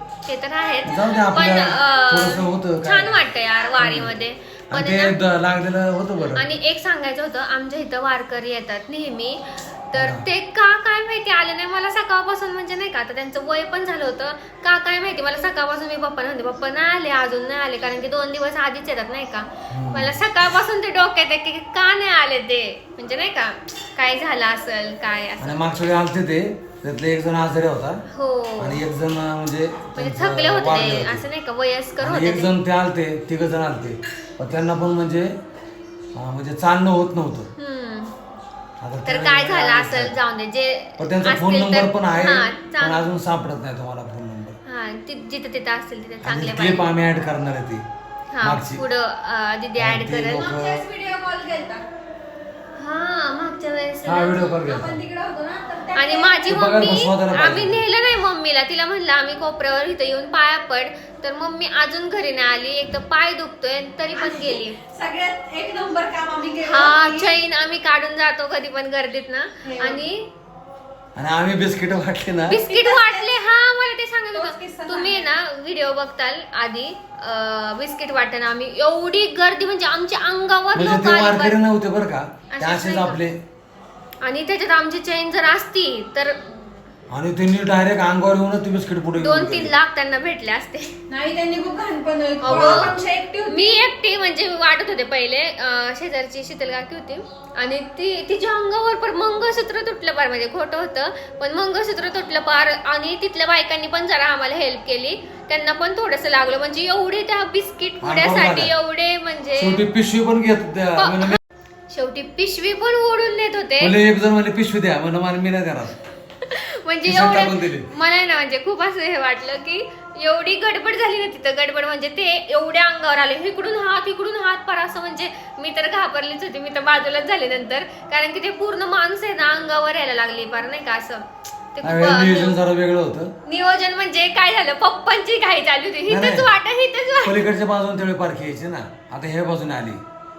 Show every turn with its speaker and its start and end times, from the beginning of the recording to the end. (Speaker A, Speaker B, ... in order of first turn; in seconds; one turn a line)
Speaker A: 0.3-5.2
Speaker B: 0.8-3.2
Speaker B: 3.8-4.1
Speaker B: 4.7-6.5
Speaker A: 6.3-25.6
Speaker B: 10.0-10.2
Speaker B: 19.7-20.1
Speaker B: 25.4-28.0
Speaker A: 28.1-28.8
Speaker B: 28.6-31.3
Speaker A: 30.0-32.5
Speaker B: 32.0-35.4
Speaker B: 36.1-37.5
Speaker A: 37.6-38.1
Speaker B: 38.8-40.2
Speaker A: 39.1-43.1
Speaker B: 41.0-44.6
Speaker A: 44.7-46.9
Speaker B: 46.2-47.9
Speaker A: 48.3-50.5
Speaker B: 48.4-48.8
Speaker B: 49.8-50.9
Speaker C: 50.4-51.9
Speaker A: 52.8-54.6
Speaker B: 54.0-55.0
Speaker C: 54.7-56.5
Speaker A: 56.0-64.8
Speaker B: 56.5-57.8
Speaker C: 64.2-67.3
Speaker A: 66.7-70.3
Speaker C: 69.6-70.0
Speaker B: 71.2-72.6
Speaker A: 72.5-81.6
Speaker C: 72.6-73.3
Speaker C: 74.3-75.3
Speaker B: 80.7-83.4
Speaker A: 82.5-83.2
Speaker A: 84.2-86.6
Speaker B: 87.1-89.7
Speaker A: 89.2-91.0
Speaker C: 91.1-93.8
Speaker A: 92.4-93.0
Speaker B: 92.4-93.0
Speaker A: 93.5-109.8
Speaker B: 108.0-108.7
Speaker B: 109.6-111.4
Speaker A: 111.0-111.4
Speaker A: 111.9-114.0
Speaker B: 113.8-116.0
Speaker A: 116.4-132.6
Speaker B: 117.1-117.9
Speaker B: 131.8-133.3
Speaker A: 133.5-137.4
Speaker B: 136.1-136.5
Speaker B: 137.2-140.0